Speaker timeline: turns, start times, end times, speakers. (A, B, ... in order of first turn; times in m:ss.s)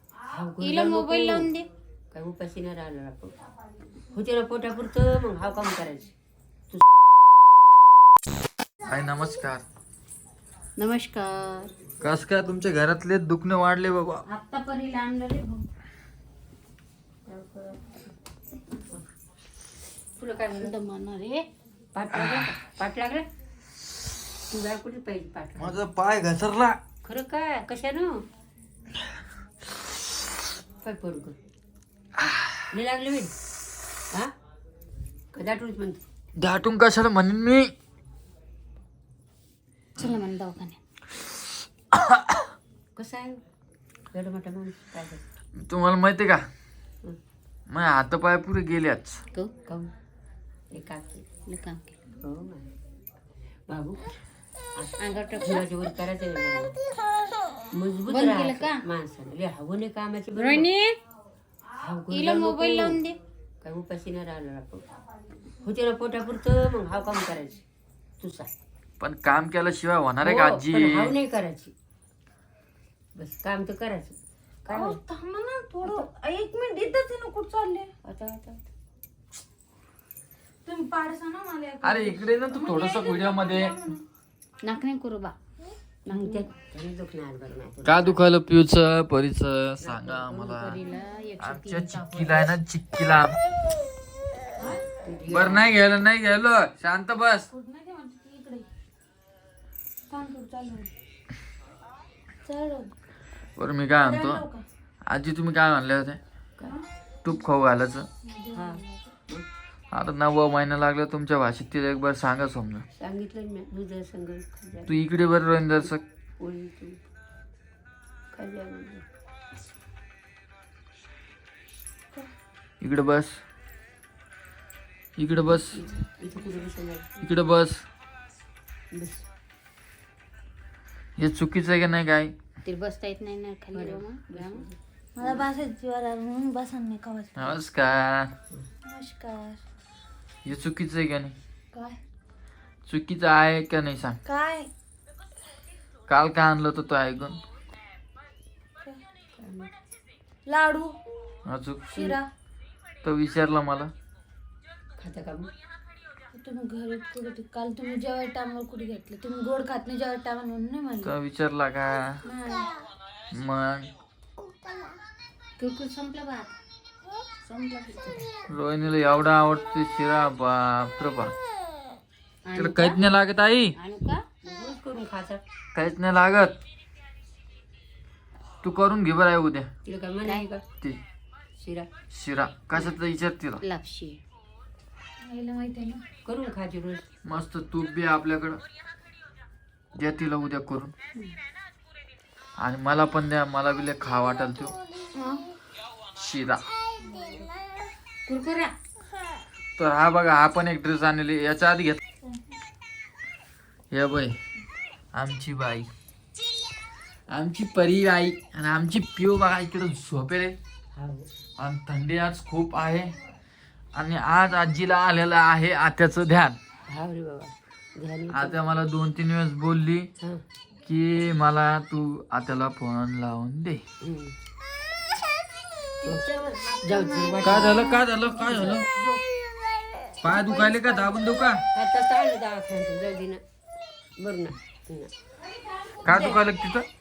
0:00.3-0:01.5 A
0:00.6-0:01.7 B
0:02.1-0:03.3 A
0:04.1-0:06.1 A
0:08.8-0:09.6 C
0:10.8-0:11.7 B
0:12.0-0:14.3 C
0:14.3-0:15.6 B
0:17.3-0:18.0 A
0:20.2-0:20.8 A
0:20.5-0:21.4 B
0:21.9-0:23.3 A
0:22.2-0:22.4 C
0:24.5-0:25.8 A
0:25.6-0:26.8 C
0:27.0-0:28.2 A
0:30.8-0:31.4 A
0:32.2-0:32.7 C
0:32.7-0:33.3 A
0:35.3-0:36.0 A
0:36.4-0:37.7 C
0:40.0-0:40.8 B
0:41.9-0:42.4 C
0:43.0-0:43.4 A
0:44.1-0:45.2 A
0:45.6-0:46.4 C
0:47.7-0:49.2 C
0:50.7-0:51.3 A
0:51.4-0:52.0 B
0:52.2-0:52.7 A
0:53.7-0:54.0 A
0:54.8-0:56.8 A
0:55.0-0:55.7 B
0:57.7-1:00.7 A
0:58.1-0:58.8 B
1:00.4-1:01.0 B
1:01.8-1:03.0 A
1:02.1-1:03.2 B
1:03.6-1:04.8 A
1:05.5-1:07.6 A
1:08.2-1:08.5 A
1:09.0-1:11.1 C
1:10.2-1:11.7 A
1:13.2-1:15.0 A
1:14.7-1:17.9 D
1:18.0-1:18.6 A
1:20.6-1:24.0 D
1:21.8-1:23.8 C
1:24.6-1:25.3 B
1:26.1-1:26.4 B
1:26.1-1:28.2 A
1:27.8-1:30.8 C
1:29.8-1:30.7 A
1:30.5-1:32.5 B
1:31.4-1:33.4 C
1:35.0-1:35.7 A
1:35.3-1:37.5 C
1:37.5-1:38.7 D
1:40.1-1:40.9 D
1:42.4-1:42.9 D
1:43.6-1:44.4 C
1:44.0-1:44.6 D
1:45.0-1:46.2 C
1:47.2-1:48.1 C
1:48.2-1:49.1 D
1:48.5-1:49.4 A
1:49.9-1:52.9 C
1:53.0-1:54.9 A
1:54.9-1:56.0 C
1:56.4-1:57.0 A
1:58.3-1:59.0 A
2:02.8-2:03.4 C
2:05.2-2:05.8 C
2:05.8-2:07.3 A
2:07.2-2:07.8 C
2:08.9-2:09.2 A
2:11.2-2:12.3 C
2:12.6-2:14.6 B
2:13.7-2:15.4 A
2:15.2-2:17.6 D
2:17.4-2:18.3 C
2:18.8-2:19.6 D
2:20.4-2:21.4 C
2:21.7-2:22.0 D
2:22.8-2:24.2 C
2:24.2-2:24.7 D
2:26.1-2:27.4 C
2:29.4-2:29.7 A
2:30.4-2:31.0 D
2:31.5-2:32.2 C
2:31.9-2:32.3 D
2:33.0-2:33.9 C
2:35.0-2:35.5 A
2:36.3-2:41.1 D
2:41.0-2:42.2 C
2:42.3-2:42.6 B
2:43.3-2:43.9 C
2:45.6-2:46.5 B
2:47.4-2:48.3 B
2:48.5-2:51.3 C
2:52.4-2:53.0 B
2:52.5-2:53.8 C
2:53.8-2:54.2 B
2:54.4-2:55.4 A
2:55.7-2:56.6 C
2:58.6-2:59.7 C
2:59.8-3:00.6 A
3:01.6-3:01.9 A
3:02.1-3:03.6 C
3:03.6-3:04.2 B
3:05.2-3:06.0 D
3:06.2-3:07.0 A
3:07.2-3:08.6 C
3:09.9-3:10.9 C
3:12.6-3:14.8 C
3:15.2-3:15.4 B
3:16.1-3:16.6 C
3:17.0-3:17.5 D
3:18.3-3:18.7 B
3:19.8-3:22.0 C
3:23.9-3:24.4 C
3:25.1-3:25.9 C
3:27.3-3:30.6 C
3:30.9-3:31.3 A
3:31.6-3:33.2 C
3:33.9-3:36.6 C
3:36.9-3:38.6 A
3:38.3-3:40.1 C
3:40.8-3:43.8 C
3:44.0-3:44.3 A
3:46.0-3:49.2 D
3:46.8-3:47.9 A
3:47.4-3:48.9 C
3:50.2-3:51.6 C
3:50.3-3:51.4 D
3:51.7-3:53.4 A
3:54.2-3:55.1 A
3:56.0-3:56.4 D
3:56.0-3:56.9 C